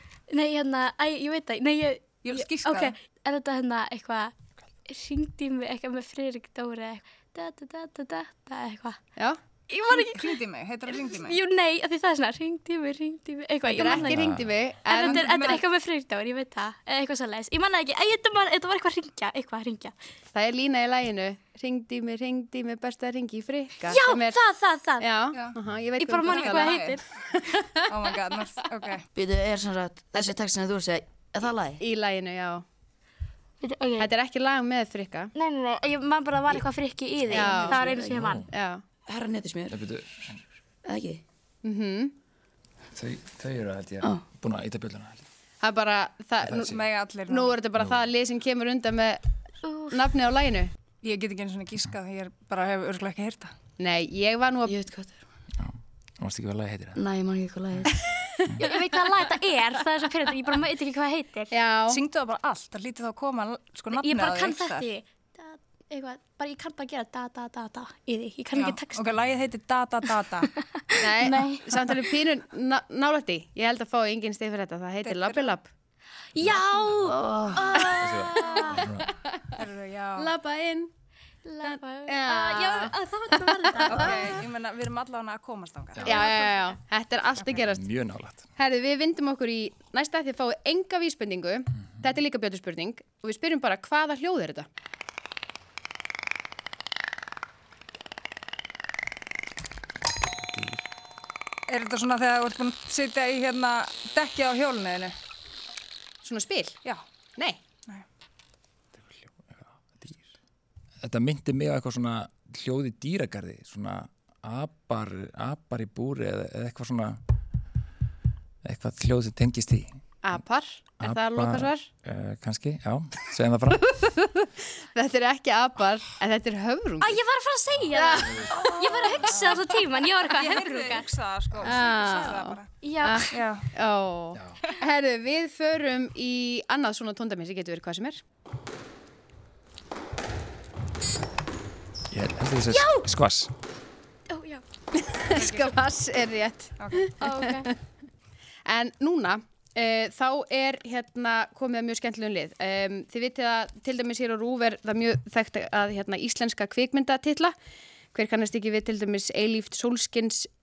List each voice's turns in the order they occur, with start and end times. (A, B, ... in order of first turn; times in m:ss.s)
0:00.3-0:04.3 A
0:02.2-0:02.9 B
0:04.9-0:09.0 A
0:09.7-0:10.4 A
0:09.9-0:11.4 B
0:10.9-0:14.3 A
0:13.6-0:15.6 C
0:14.1-0:14.5 D
0:14.9-0:19.9 A
0:14.9-0:15.6 B
0:20.3-0:24.4 C
0:23.9-0:25.1 A
0:25.0-0:26.7 C
0:26.0-0:27.0 A
0:26.2-0:27.0 B
0:27.4-0:27.8 C
0:27.9-0:29.0 B
0:29.1-0:31.8 E
0:30.1-0:30.4 C
0:31.8-0:32.6 C
0:33.6-0:34.1 A
0:34.0-0:35.3 C
0:35.3-0:38.4 A
0:37.2-0:38.2 E
0:37.3-0:37.9 C
0:38.1-0:38.5 D
0:38.5-0:38.8 C
0:39.0-0:39.8 E
0:39.7-0:40.4 D
0:40.8-0:41.2 E
0:41.6-0:42.1 C
0:42.9-0:45.2 D
0:45.6-0:46.7 C
0:46.4-0:46.8 D
0:46.7-0:47.6 B
0:47.3-0:49.2 C
0:49.6-0:50.1 A
0:49.9-0:50.7 C
0:51.0-0:53.5 B
0:53.8-0:54.8 C
0:54.6-0:55.2 E
0:55.6-0:57.0 D
0:56.9-0:58.0 E
0:58.6-1:01.5 A
1:01.5-1:02.0 C
1:01.9-1:04.9 B
1:03.9-1:09.0 A
1:08.5-1:10.5 B
1:10.5-1:11.7 A
1:11.0-1:15.7 C
1:15.0-1:15.6 B
1:16.3-1:18.9 A
1:16.4-1:17.0 D
1:17.0-1:17.8 E
1:17.9-1:19.1 D
1:19.6-1:20.3 B
1:20.2-1:20.9 C
1:21.4-1:24.3 A
1:21.6-1:24.4 C
1:23.9-1:26.2 B
1:26.0-1:27.8 C
1:26.2-1:26.6 A
1:27.6-1:28.5 D
1:28.6-1:34.7 C
1:40.5-1:40.8 D
1:41.7-1:45.2 B
1:46.2-1:46.8 C
1:49.5-1:50.3 D
1:51.0-1:57.2 D
1:58.6-2:00.4 D
2:00.2-2:01.9 C
2:01.0-2:03.9 D
2:03.9-2:07.2 C
2:07.0-2:11.1 A
2:07.9-2:08.7 C
2:09.0-2:09.6 B
2:10.3-2:12.7 B
2:11.6-2:18.2 C
2:12.8-2:13.4 A
2:13.3-2:13.6 B
2:22.1-2:23.5 D
2:22.7-2:23.0 A
2:24.3-2:24.6 A
2:25.0-2:27.7 C
2:25.4-2:25.7 B
2:26.8-2:27.0 B
2:27.2-2:27.7 A
2:28.6-2:37.5 C
2:38.1-2:40.5 C